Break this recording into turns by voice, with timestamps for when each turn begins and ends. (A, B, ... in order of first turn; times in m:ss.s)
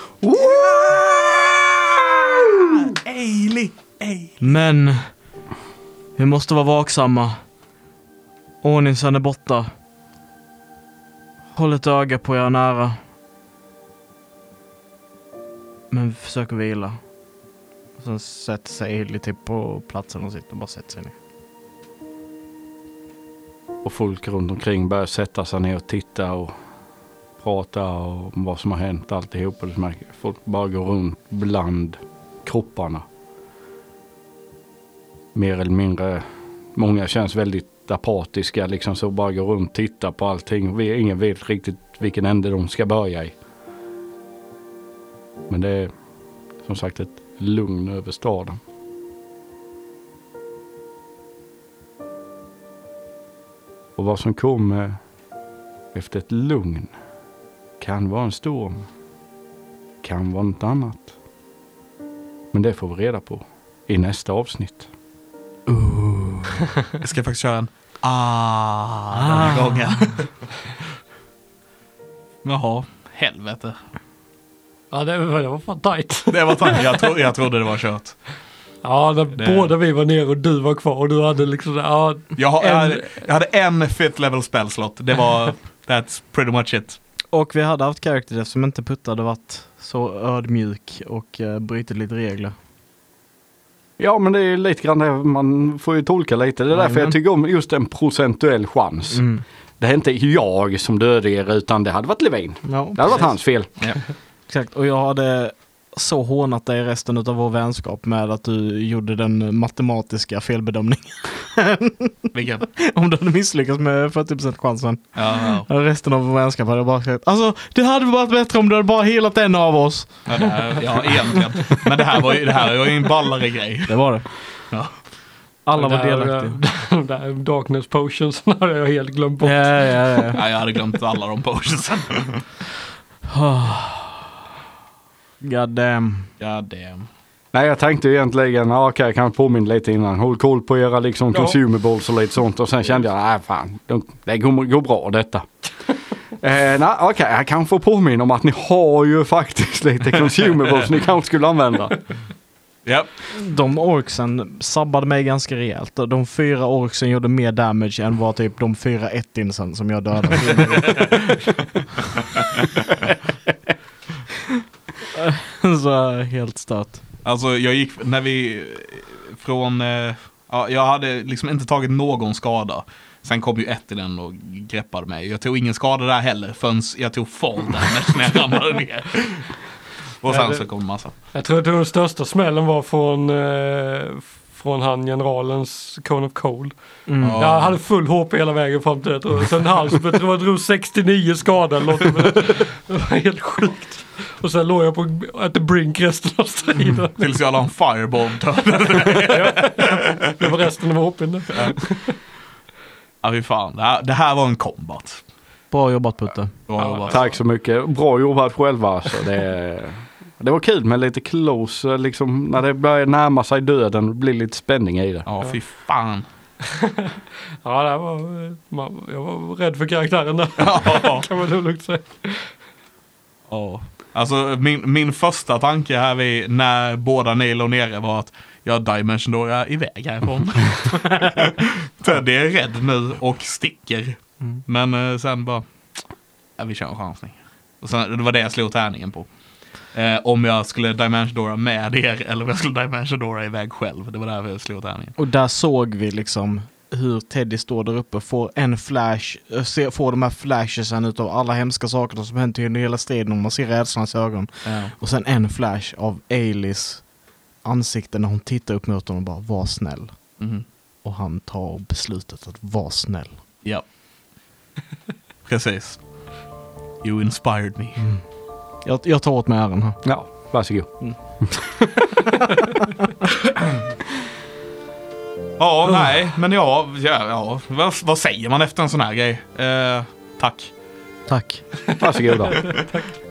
0:00.4-0:01.3 A
0:00.4-0:00.8 B
0:02.6-0:04.5 A
0:04.4-0:05.1 C
0:06.2-0:07.4 C
0:08.6-0:09.7 C
0:11.5-0:13.0 C
0:15.9-0:17.0 C
0:18.0-0:21.2 C
0:23.8-0:26.6 B
0:27.4-0:33.1 B
0:35.3-0:36.2 B
0:36.8-0:43.4 B
0:45.5-0:45.9 B
0:46.6-0:48.6 B
0:54.0-0:55.0 B
0:55.9-0:56.9 B
0:57.8-0:58.9 B
1:00.0-1:01.1 B
1:02.5-1:04.9 B
1:05.7-1:06.6 C
1:07.0-1:10.5 A
1:09.1-1:10.0 C
1:12.4-1:13.8 A
1:14.9-1:16.9 D
1:16.3-1:18.2 A
1:18.8-1:23.3 D
1:19.4-1:19.7 A
1:22.4-1:27.0 A
1:27.3-1:32.5 C
1:34.0-1:39.3 B
1:36.7-1:37.1 C
1:39.1-1:39.4 C
1:39.8-1:43.7 B
1:42.6-1:43.4 C
1:44.5-2:00.8 C
1:52.3-1:52.6 A
1:55.2-1:55.7 A
2:00.3-2:04.0 A
2:03.9-2:04.3 C
2:04.7-2:05.0 A
2:05.6-2:06.6 C
2:05.8-2:09.9 D
2:09.4-2:10.4 C
2:10.4-2:12.4 A
2:13.3-2:14.3 C
2:15.4-2:16.3 C
2:16.4-2:17.1 A
2:17.5-2:25.5 B
2:26.4-2:32.0 B
2:32.8-2:33.1 A
2:33.3-2:41.3 C
2:40.7-2:41.0 A
2:45.1-2:47.0 C
2:47.2-2:59.6 A
3:00.2-3:01.1 A
3:00.3-3:00.6 D
3:01.3-3:17.3 D
3:07.1-3:07.4 C
3:07.2-3:07.7 A
3:17.2-3:20.3 A
3:19.3-3:22.2 D
3:23.2-3:25.2 A
3:25.7-3:26.6 C
3:26.7-3:27.3 A
3:26.8-3:27.4 D
3:27.1-3:35.3 B
3:35.3-3:36.3 A
3:36.6-3:42.5 D
3:40.6-3:41.3 A
3:43.5-3:55.6 A
3:56.6-3:59.3 A
3:59.9-4:05.2 A
4:05.2-4:17.1 C
4:14.6-4:14.9 A
4:17.6-4:20.4 C
4:20.4-4:20.6 A
4:21.0-4:23.4 C
4:25.4-4:26.1 A
4:27.0-4:28.0 A
4:28.8-4:30.0 C
4:30.0-4:31.5 B
4:35.6-4:40.7 A
4:41.3-4:41.6 C
4:42.0-4:42.8 B
4:42.5-4:43.1 D
4:42.5-4:42.9 A